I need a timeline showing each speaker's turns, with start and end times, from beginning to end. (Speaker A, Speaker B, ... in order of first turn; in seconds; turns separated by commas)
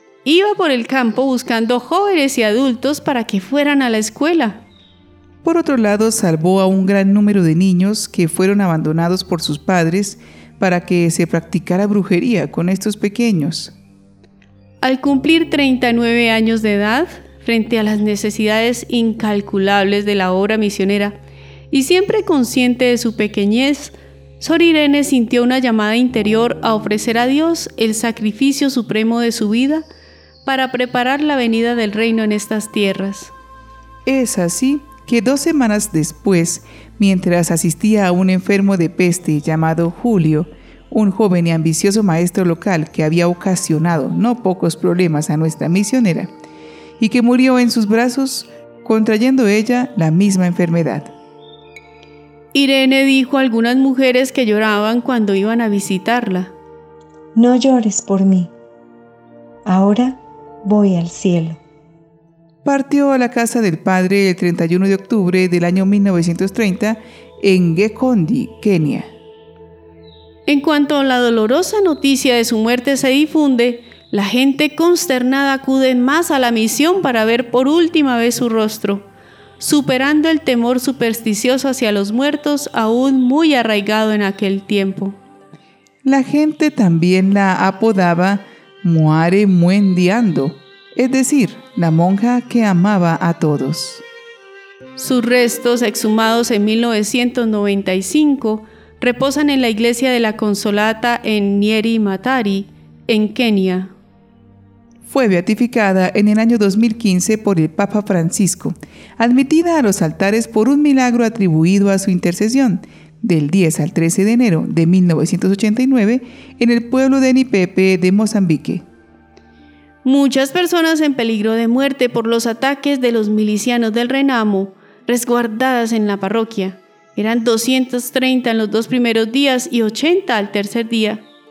Speaker A: 0.2-4.6, Speaker B: 5.4-13.7, Speaker A: 14.8-21.2, Speaker A: 21.7-29.9, Speaker A: 30.4-33.3, Speaker B: 34.1-46.3, Speaker B: 47.0-51.1, Speaker A: 52.5-56.5, Speaker C: 57.4-58.5, Speaker C: 59.7-61.6, Speaker B: 62.6-69.1, Speaker A: 70.5-79.1, Speaker A: 79.6-85.2, Speaker B: 86.0-94.0, Speaker A: 95.0-103.9, Speaker B: 105.1-118.8, Speaker A: 120.0-131.2